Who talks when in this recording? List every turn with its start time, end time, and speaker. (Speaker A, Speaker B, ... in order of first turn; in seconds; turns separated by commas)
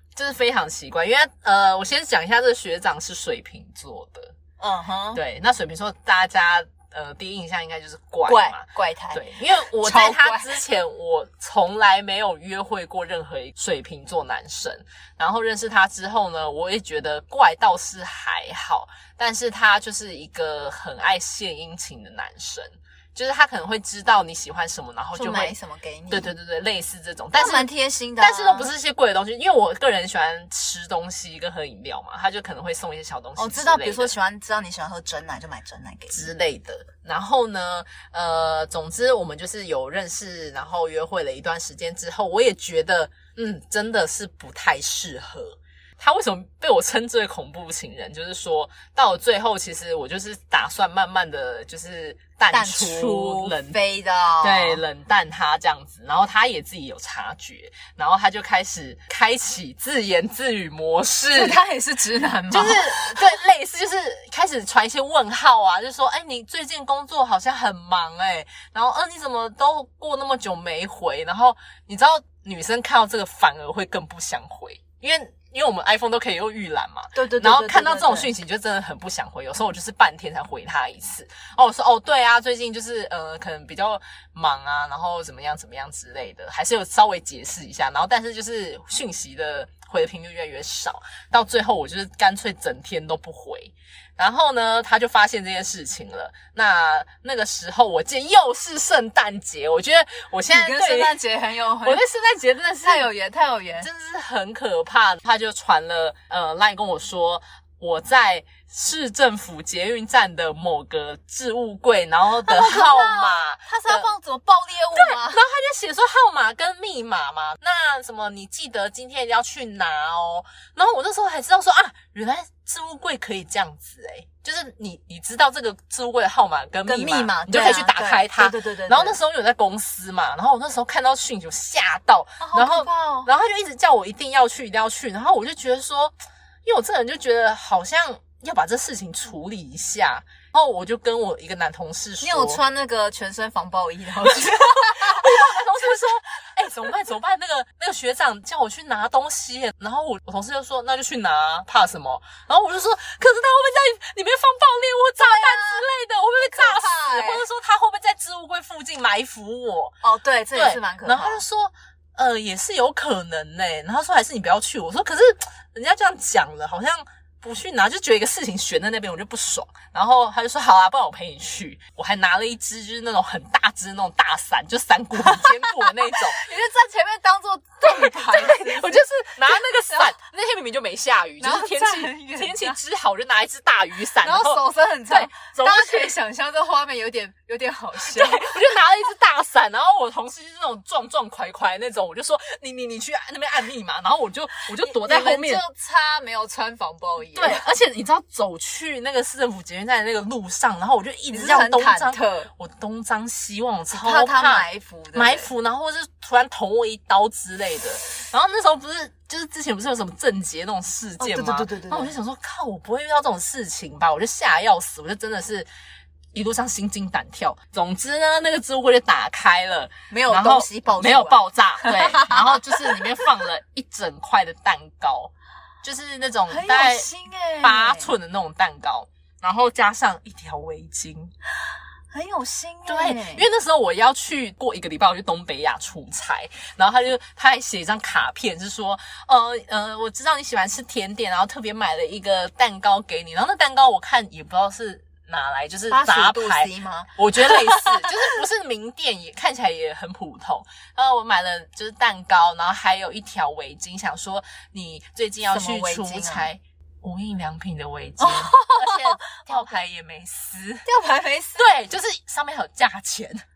Speaker A: 0.1-4.3, Speaker B: 4.6-5.2, Speaker A: 5.1-25.6, Speaker B: 8.3-10.6, Speaker B: 25.1-26.3, Speaker A: 26.1-27.7, Speaker B: 27.4-28.7, Speaker A: 28.2-34.1, Speaker B: 33.4-36.3, Speaker A: 36.1-53.8, Speaker B: 52.5-54.8, Speaker A: 54.4-61.6, Speaker B: 61.3-63.2, Speaker A: 62.5-101.2, Speaker B: 77.1-78.3, Speaker B: 100.5-102.0, Speaker A: 101.8-103.1, Speaker B: 102.8-103.9, Speaker A: 103.8-114.1, Speaker B: 112.5-115.4, Speaker A: 115.0-142.6, Speaker B: 126.9-129.2, Speaker B: 132.4-133.3, Speaker B: 142.2-145.9, Speaker A: 144.2-159.9, Speaker B: 155.2-157.4, Speaker B: 160.0-161.4, Speaker A: 160.5-176.4, Speaker B: 175.2-180.1, Speaker A: 177.8-186.2, Speaker B: 181.4-182.8, Speaker B: 184.2-188.6, Speaker A: 188.0-195.6, Speaker B: 194.8-197.6, Speaker A: 197.3-215.7, Speaker B: 201.3-202.5, Speaker B: 203.9-205.5, Speaker B: 211.2-212.2, Speaker A: 216.3-225.3, Speaker B: 220.1-223.2, Speaker A: 225.8-227.1, Speaker B: 226.5-228.1, Speaker A: 227.6-231.3, Speaker B: 232.1-233.5, Speaker A: 232.9-260.9, Speaker B: 245.9-248.2, Speaker B: 255.5-256.5, Speaker B: 258.2-259.7, Speaker B: 260.9-261.7, Speaker A: 261.6-263.4